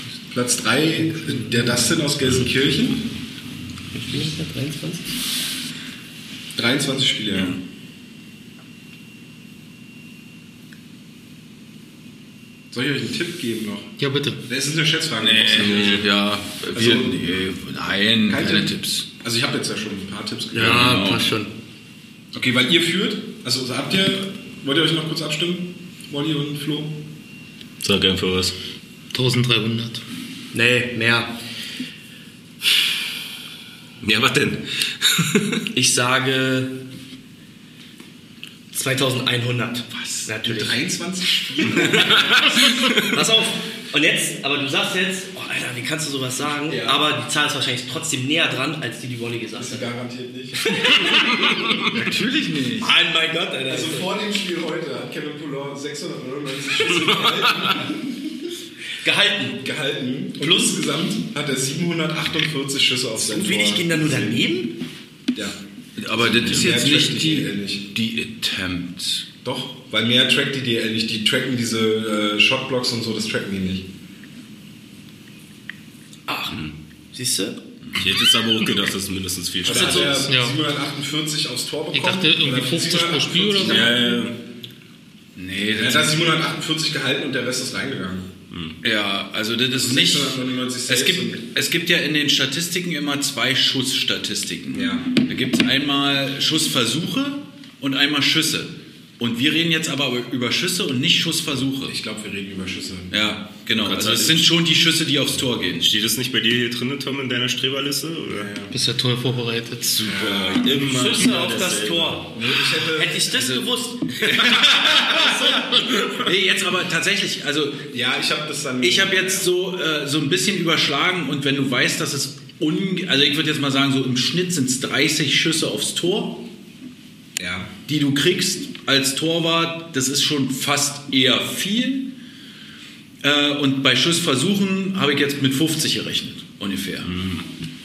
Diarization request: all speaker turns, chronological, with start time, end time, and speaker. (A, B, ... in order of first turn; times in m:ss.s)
0:00.3-0:03.0 A
0:03.9-0:05.1 B
0:06.5-0:07.6 A
0:12.7-0:13.9 A
0:14.0-0:14.4 C
0:14.5-0:16.1 A
0:15.2-0:19.1 D
0:15.6-0:16.0 E
0:16.7-0:17.2 A
0:18.3-0:20.9 A
0:20.5-0:21.5 B
0:20.6-0:21.2 D
0:22.3-0:27.0 A
0:27.8-0:28.5 E
0:29.1-0:30.0 C
0:30.5-0:31.3 B
0:34.0-0:35.6 E
0:35.7-0:36.8 B
0:38.7-0:40.8 B
0:39.9-0:40.3 D
0:40.4-0:42.5 A
0:41.8-0:42.1 B
0:41.8-0:43.0 E
0:42.9-0:49.9 B
0:46.7-0:47.0 A
0:49.6-0:51.1 A
0:50.7-0:51.8 B
0:51.8-0:52.9 D
0:52.8-0:54.1 B
0:53.7-0:58.3 A
0:57.0-0:57.7 E
0:59.0-0:59.6 B
0:59.6-1:04.4 A
1:00.4-1:00.7 B
1:03.2-1:04.8 B
1:05.3-1:05.6 A
1:06.0-1:09.3 D
1:06.1-1:07.8 A
1:09.4-1:13.9 A
1:16.3-1:16.6 B
1:17.1-1:17.6 B
1:18.0-1:20.3 E
1:19.6-1:24.2 A
1:19.7-1:20.2 B
1:20.3-1:20.6 C
1:21.9-1:24.0 C
1:23.6-1:24.4 E
1:25.4-1:26.2 D
1:25.7-1:28.3 A
1:28.5-1:28.8 E
1:28.8-1:41.9 D
1:29.8-1:31.4 A
1:34.7-1:35.1 A
1:41.9-1:43.2 A
1:43.1-1:45.9 D
1:43.8-1:44.5 E
1:45.8-1:48.5 E
1:48.3-1:48.7 A
1:48.7-1:50.0 C
1:50.0-1:50.7 A
1:50.0-1:52.2 E
1:50.8-1:52.4 B
1:52.3-1:53.4 A
1:52.9-1:54.5 B
1:53.3-1:53.6 D
1:54.2-1:55.6 D
1:54.6-1:55.3 A
1:56.1-1:57.8 D
1:57.9-1:59.5 A
1:58.8-2:06.4 D
2:07.4-2:07.7 A
2:07.9-2:12.2 D
2:13.2-2:17.1 D
2:17.0-2:17.4 E